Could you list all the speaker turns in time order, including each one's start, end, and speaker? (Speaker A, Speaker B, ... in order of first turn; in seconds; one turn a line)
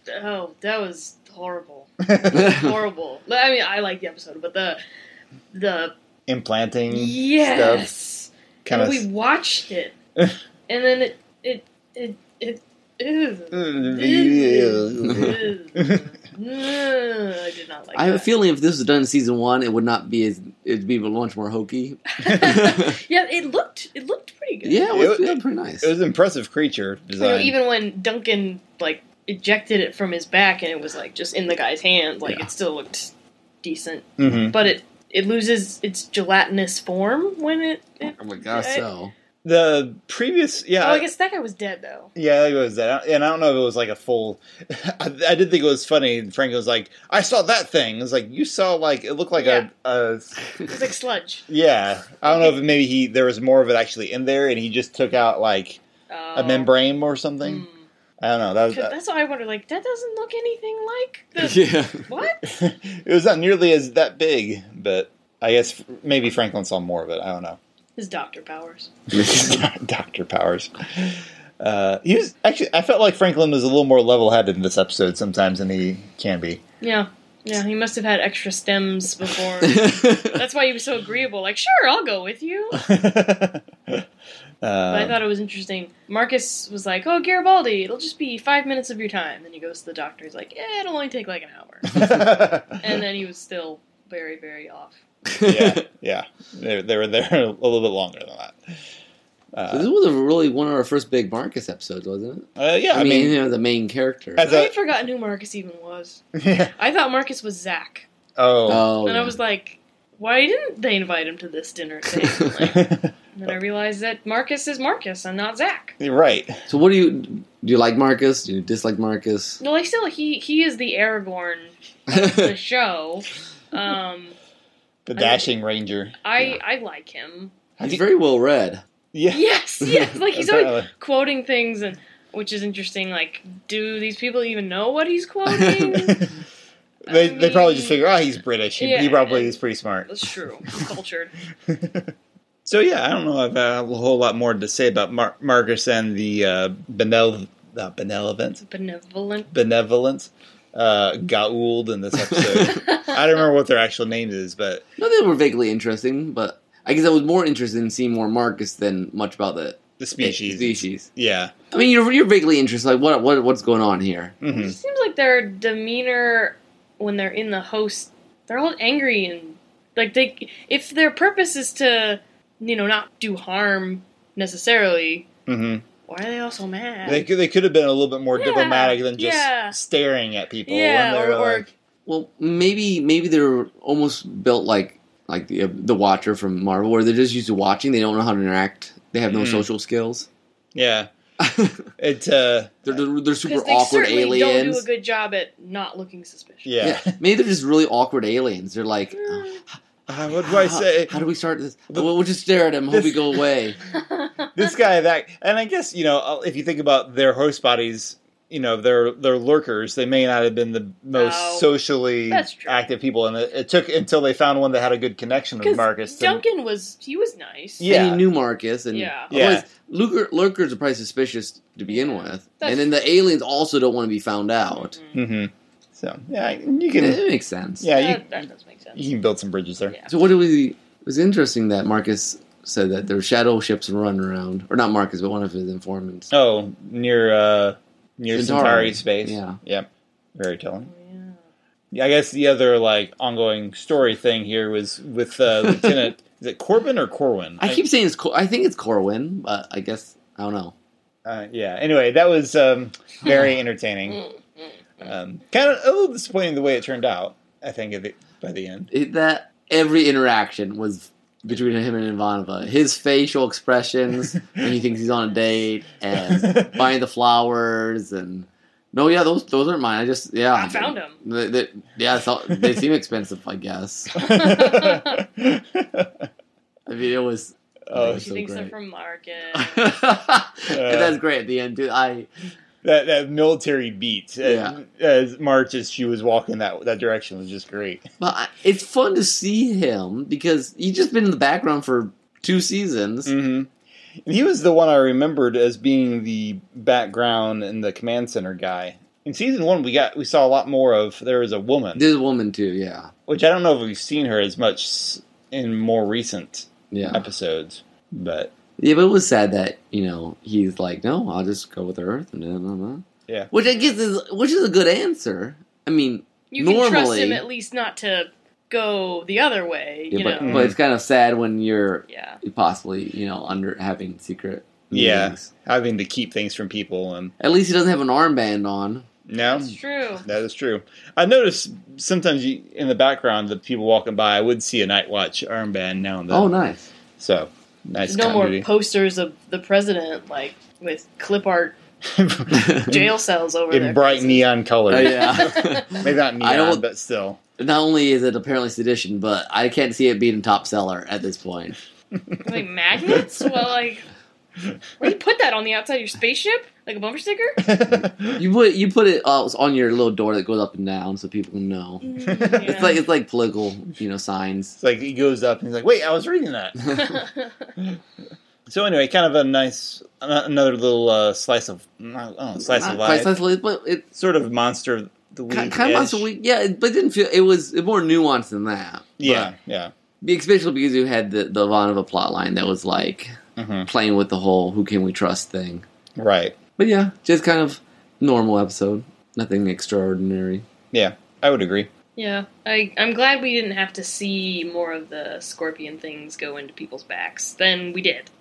Speaker A: 0.1-4.8
Speaker B: 2.2-2.5
Speaker C: 2.3-2.7
Speaker A: 5.5-5.9
Speaker B: 6.3-7.9
Speaker A: 6.9-9.9
Speaker B: 8.6-9.1
Speaker A: 10.7-18.3
Speaker B: 13.5-16.0
Speaker C: 17.9-22.9
Speaker A: 22.1-24.9
Speaker C: 24.6-25.9
Speaker B: 24.9-27.6
Speaker A: 27.2-33.1
Speaker A: 33.6-38.8
Speaker B: 34.2-34.6
Speaker C: 38.2-39.1
Speaker B: 39.4-41.1
Speaker A: 40.8-42.1
Speaker B: 42.1-50.4
Speaker A: 49.4-49.7
Speaker A: 50.7-51.5
Speaker B: 51.5-55.8
Speaker A: 52.2-52.6
Speaker A: 56.1-56.7
Speaker B: 56.3-57.6
Speaker A: 57.4-57.8
Speaker B: 58.2-58.9
Speaker A: 58.7-62.4
Speaker C: 61.4-62.1
Speaker B: 62.4-67.6
Speaker A: 68.0-68.9
Speaker B: 69.1-76.6
Speaker C: 69.1-69.5
Speaker A: 76.8-82.8
Speaker C: 79.6-80.3
Speaker B: 82.8-84.0
Speaker B: 84.6-85.2
Speaker A: 84.9-91.9
Speaker B: 91.9-92.8
Speaker A: 92.8-95.0
Speaker C: 95.3-95.6
Speaker B: 95.4-98.5
Speaker B: 99.5-99.9
Speaker C: 99.7-104.5
Speaker B: 102.5-103.4
Speaker B: 104.4-104.7
Speaker A: 104.4-106.2
Speaker B: 106.3-106.7
Speaker A: 106.8-108.1
Speaker B: 108.4-108.9
Speaker C: 108.7-109.3
Speaker A: 109.0-115.9
Speaker B: 112.6-113.5
Speaker B: 116.0-116.6
Speaker C: 116.7-119.6
Speaker A: 119.6-124.3
Speaker B: 125.1-126.2
Speaker A: 125.2-125.5
Speaker A: 126.2-127.5
Speaker B: 127.8-128.0
Speaker C: 127.8-128.8
Speaker B: 129.1-129.5
Speaker A: 129.3-136.3
Speaker C: 129.8-130.1
Speaker B: 130.3-130.9
Speaker C: 135.5-135.9
Speaker B: 135.9-136.3
Speaker A: 137.1-138.2
Speaker B: 137.1-140.1
Speaker A: 138.8-141.3
Speaker B: 141.7-142.1
Speaker B: 142.7-148.6
Speaker A: 148.7-149.5
Speaker B: 149.5-154.8
Speaker C: 152.3-152.8
Speaker A: 152.7-153.2
Speaker C: 155.0-161.1
Speaker B: 160.0-161.5
Speaker C: 161.7-164.3
Speaker B: 164.4-164.8
Speaker A: 164.4-175.3
Speaker B: 175.5-175.8
Speaker A: 176.1-177.3
Speaker B: 177.1-181.7
Speaker A: 178.3-179.8
Speaker A: 180.7-181.7
Speaker C: 182.1-190.3
Speaker B: 189.3-189.7
Speaker B: 190.7-191.1
Speaker C: 191.4-191.9
Speaker B: 192.0-193.0
Speaker C: 192.8-194.8
Speaker A: 193.4-196.7
Speaker B: 196.6-197.1
Speaker C: 196.8-199.8
Speaker A: 199.1-199.6
Speaker B: 200.1-201.2
Speaker C: 200.3-203.8
Speaker B: 202.9-203.4
Speaker A: 203.9-204.7
Speaker B: 204.5-216.4
Speaker A: 211.1-211.7
Speaker A: 212.3-212.8
Speaker A: 215.6-217.9
Speaker B: 217.8-218.2
Speaker C: 217.8-224.9
Speaker A: 218.9-219.3
Speaker B: 219.3-219.7
Speaker A: 221.9-222.9
Speaker A: 224.7-225.2
Speaker B: 225.1-227.2
Speaker C: 227.0-227.9
Speaker B: 227.8-228.3
Speaker A: 227.9-229.0
Speaker B: 228.9-229.9
Speaker A: 229.9-230.2
Speaker C: 230.1-236.3
Speaker B: 236.3-240.9
Speaker C: 238.3-239.6
Speaker A: 240.8-241.4
Speaker B: 241.9-247.8
Speaker C: 245.6-246.1
Speaker C: 247.6-250.7
Speaker B: 251.2-254.2
Speaker B: 255.0-258.9
Speaker C: 258.9-274.2
Speaker B: 266.2-266.8
Speaker A: 270.5-271.2
Speaker A: 274.1-275.2
Speaker B: 274.1-276.2
Speaker C: 276.9-278.7
Speaker B: 277.9-278.3
Speaker A: 278.1-279.9
Speaker C: 279.5-282.3
Speaker B: 280.7-281.1
Speaker B: 282.8-288.0
Speaker C: 284.4-284.8
Speaker C: 288.2-293.3
Speaker B: 293.2-293.7
Speaker B: 294.2-302.0
Speaker C: 301.9-303.1
Speaker B: 303.3-308.5
Speaker C: 306.9-307.3
Speaker C: 308.8-317.4
Speaker A: 313.6-313.9
Speaker A: 316.5-320.6
Speaker C: 320.1-325.5
Speaker B: 320.4-320.8
Speaker A: 322.1-322.4
Speaker B: 324.9-327.3
Speaker C: 327.4-329.1
Speaker B: 329.3-336.5
Speaker A: 329.4-330.2
Speaker C: 336.3-336.9
Speaker B: 337.2-338.7
Speaker A: 338.0-341.8
Speaker B: 342.1-343.1
Speaker C: 342.5-342.9
Speaker A: 342.8-344.5
Speaker B: 343.7-347.4
Speaker C: 344.9-346.8
Speaker A: 345.0-346.0
Speaker C: 347.6-351.7
Speaker B: 352.3-353.2
Speaker A: 352.4-354.1
Speaker A: 355.0-357.6
Speaker B: 357.6-358.4
Speaker C: 358.4-364.8
Speaker A: 362.0-363.0
Speaker B: 362.2-362.7
Speaker B: 364.8-367.1
Speaker A: 366.9-367.4
Speaker B: 368.7-373.4
Speaker C: 372.6-374.1
Speaker B: 374.1-376.3
Speaker C: 375.5-379.5
Speaker B: 379.2-379.9
Speaker C: 380.2-385.8
Speaker B: 383.6-383.9
Speaker B: 386.2-386.6
Speaker C: 386.8-390.6
Speaker B: 390.9-391.9
Speaker A: 392.1-398.3